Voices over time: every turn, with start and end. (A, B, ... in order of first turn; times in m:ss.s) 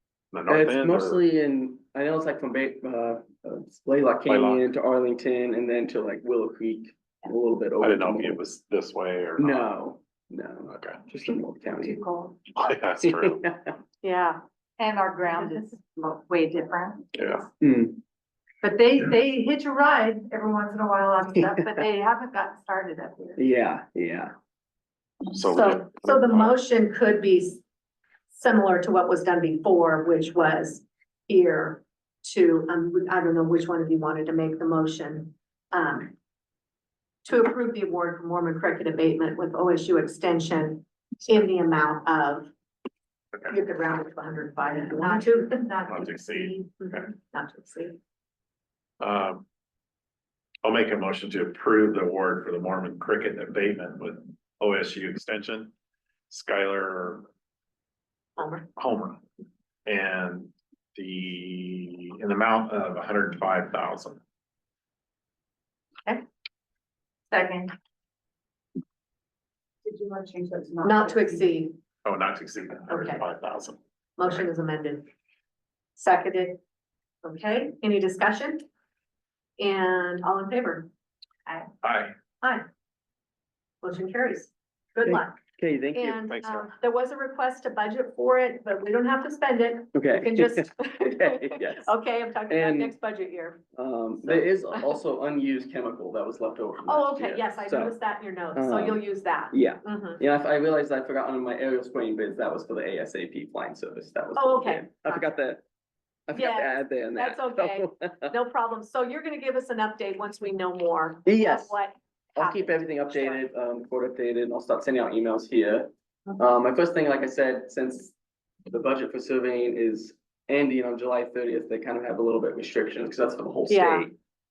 0:00.3-0:01.2 A
0:00.5-0:08.4 B
0:04.3-0:04.6 A
0:07.8-0:09.7 A
0:09.4-0:12.0 B
0:10.7-0:11.0 A
0:11.8-0:12.5 C
0:12.6-0:13.4 A
0:13.0-0:13.8 B
0:14.0-0:14.4 D
0:14.8-0:17.4 C
0:17.2-0:17.5 A
0:17.6-0:18.0 B
0:18.6-0:23.4 C
0:23.4-0:24.3 B
0:25.3-0:26.5 A
0:25.4-0:27.6 D
0:28.3-0:36.1 D
0:37.2-0:42.5 D
0:43.5-0:45.6 D
0:44.6-0:46.9 C
0:45.9-0:47.1 A
0:47.1-0:48.0 D
0:49.0-0:49.4 A
0:50.6-0:55.7 A
0:56.3-0:57.3 A
0:58.4-0:58.7 D
0:58.8-0:59.2 A
0:59.9-1:04.2 A
1:07.3-1:07.7 C
1:09.8-1:11.5 C
1:10.8-1:11.7 D
1:12.0-1:14.4 A
1:12.9-1:13.2 D
1:14.2-1:15.1 D
1:16.0-1:16.6 D
1:17.2-1:18.6 D
1:19.6-1:20.9 D
1:21.8-1:22.1 A
1:22.4-1:22.7 D
1:23.8-1:25.4 D
1:25.1-1:26.1 B
1:25.9-1:33.6 D
1:26.3-1:26.7 A
1:29.9-1:31.9 B
1:32.5-1:33.0 B
1:33.8-1:38.0 B
1:34.2-1:35.0 D
1:36.9-1:40.2 D
1:38.5-1:45.6 B
1:44.4-1:45.4 D
1:46.3-1:48.3 B
1:46.3-1:53.4 D
1:51.2-1:51.8 B
1:52.4-1:58.2 B
1:58.7-2:04.2 B
2:03.7-2:04.1 D